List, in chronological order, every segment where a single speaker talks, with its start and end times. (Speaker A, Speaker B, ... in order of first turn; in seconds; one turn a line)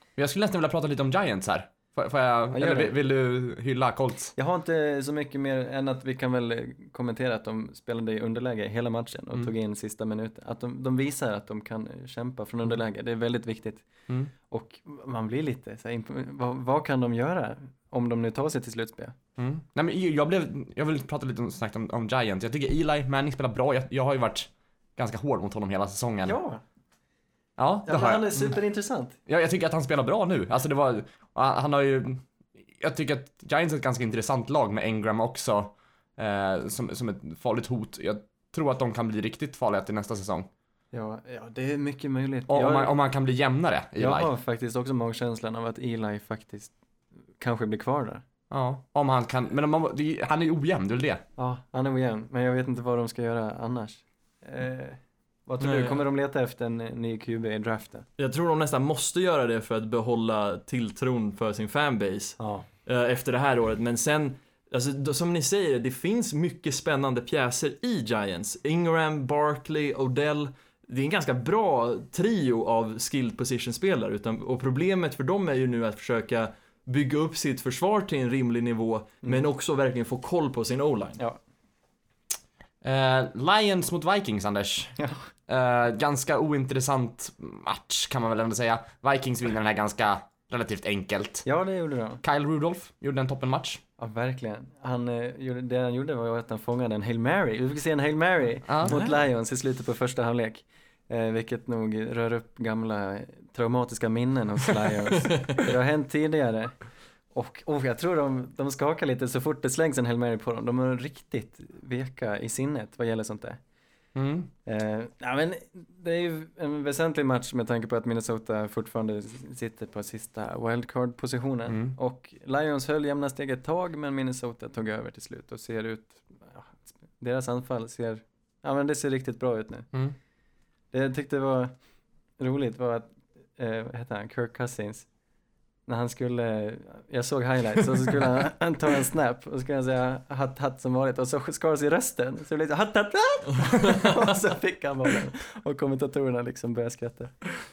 Speaker A: 0.2-4.3
Speaker B: 2.5-2.9
Speaker B: 4.3-19.1
Speaker A: 19.4-26.4
Speaker B: 26.2-26.6
Speaker A: 27.6-28.3
Speaker B: 27.9-29.2
Speaker A: 29.3-40.5
Speaker B: 40.9-42.9
Speaker A: 42.5-44.3
Speaker B: 44.0-46.7
Speaker B: 47.4-48.2
Speaker A: 48.5-51.2
Speaker B: 51.4-58.0
Speaker C: 55.6-56.0
Speaker C: 58.2-81.2
Speaker B: 62.4-62.6
Speaker A: 82.8-91.5
Speaker B: 85.0-85.2
Speaker B: 91.4-92.2
Speaker A: 92.2-93.8
Speaker B: 94.0-106.8
Speaker A: 98.7-99.0
Speaker C: 105.3-105.5
Speaker B: 107.3-113.6
Speaker A: 114.1-114.5
Speaker B: 114.7-129.9
Speaker A: 121.7-122.0
Speaker B: 130.9-131.7
Speaker B: 132.4-135.1
Speaker B: 135.8-147.4